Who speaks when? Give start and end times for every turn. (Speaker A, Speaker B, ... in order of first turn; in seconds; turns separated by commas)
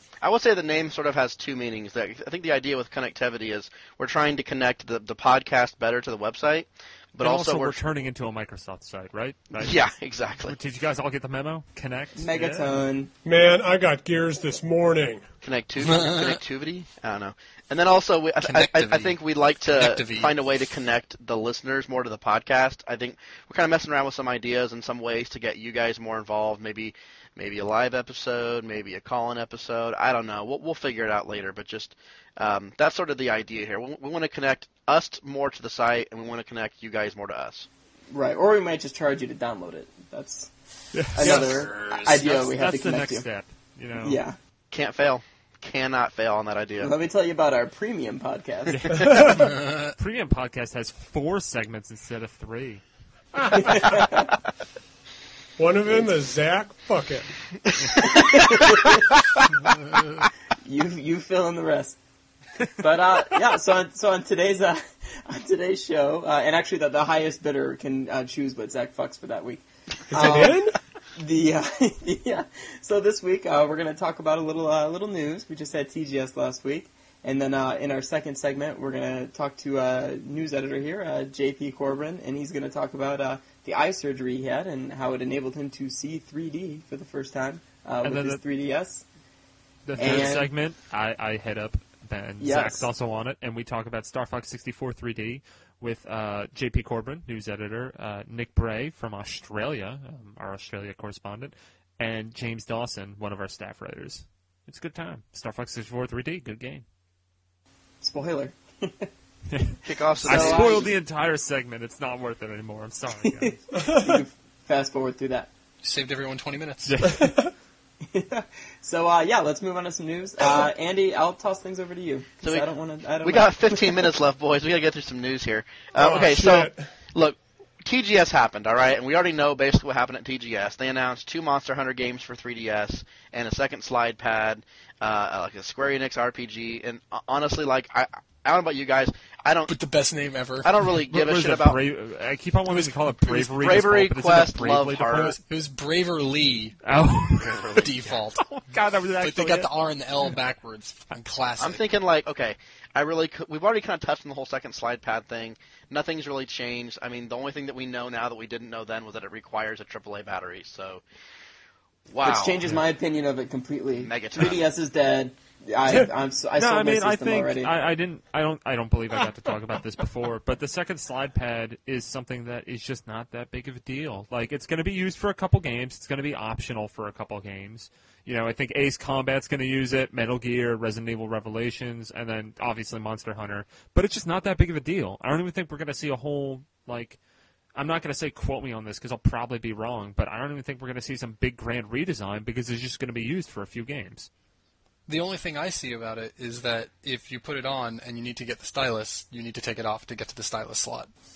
Speaker A: 0.2-7.8, Speaker B: 7.2-9.8, Speaker A: 9.6-10.6, Speaker B: 10.4-12.8, Speaker C: 12.2-13.1, Speaker D: 13.2-15.2, Speaker A: 15.4-37.7, Speaker E: 15.8-16.4, Speaker E: 18.4-19.2, Speaker E: 19.7-20.3, Speaker C: 38.1-40.5, Speaker B: 40.9-41.6, Speaker C: 41.1-43.3, Speaker E: 41.2-42.4, Speaker B: 42.2-44.2, Speaker C: 44.0-44.4, Speaker A: 44.7-46.9, Speaker C: 46.8-49.4, Speaker B: 48.8-52.8, Speaker E: 49.4-49.9, Speaker C: 53.5-54.3, Speaker D: 55.6-57.3, Speaker C: 58.0-59.0, Speaker C: 60.6-62.0, Speaker C: 62.8-89.0, Speaker D: 70.1-70.8, Speaker B: 88.0-88.4, Speaker B: 89.8-106.8, Speaker C: 90.0-90.5, Speaker C: 92.4-92.9, Speaker C: 108.0-109.1, Speaker B: 109.5-113.6, Speaker A: 109.8-110.9, Speaker C: 110.2-110.9, Speaker C: 113.2-115.5, Speaker D: 113.8-114.2, Speaker E: 115.8-117.0, Speaker B: 116.9-117.3, Speaker C: 118.1-124.1, Speaker A: 122.4-122.7, Speaker A: 123.2-139.8, Speaker D: 126.0-126.9, Speaker E: 139.7-140.7, Speaker A: 140.6-141.8, Speaker B: 141.1-145.4, Speaker E: 142.7-143.5, Speaker A: 143.4-145.4, Speaker E: 145.1-146.8, Speaker B: 146.8-149.7, Speaker A: 147.4-147.9, Speaker E: 147.7-148.4, Speaker E: 149.2-151.8, Speaker A: 151.6-161.0, Speaker A: 162.1-162.6, Speaker C: 162.2-167.7, Speaker A: 164.0-164.6, Speaker B: 166.6-187.2, Speaker B: 187.8-194.3, Speaker E: 195.1-201.1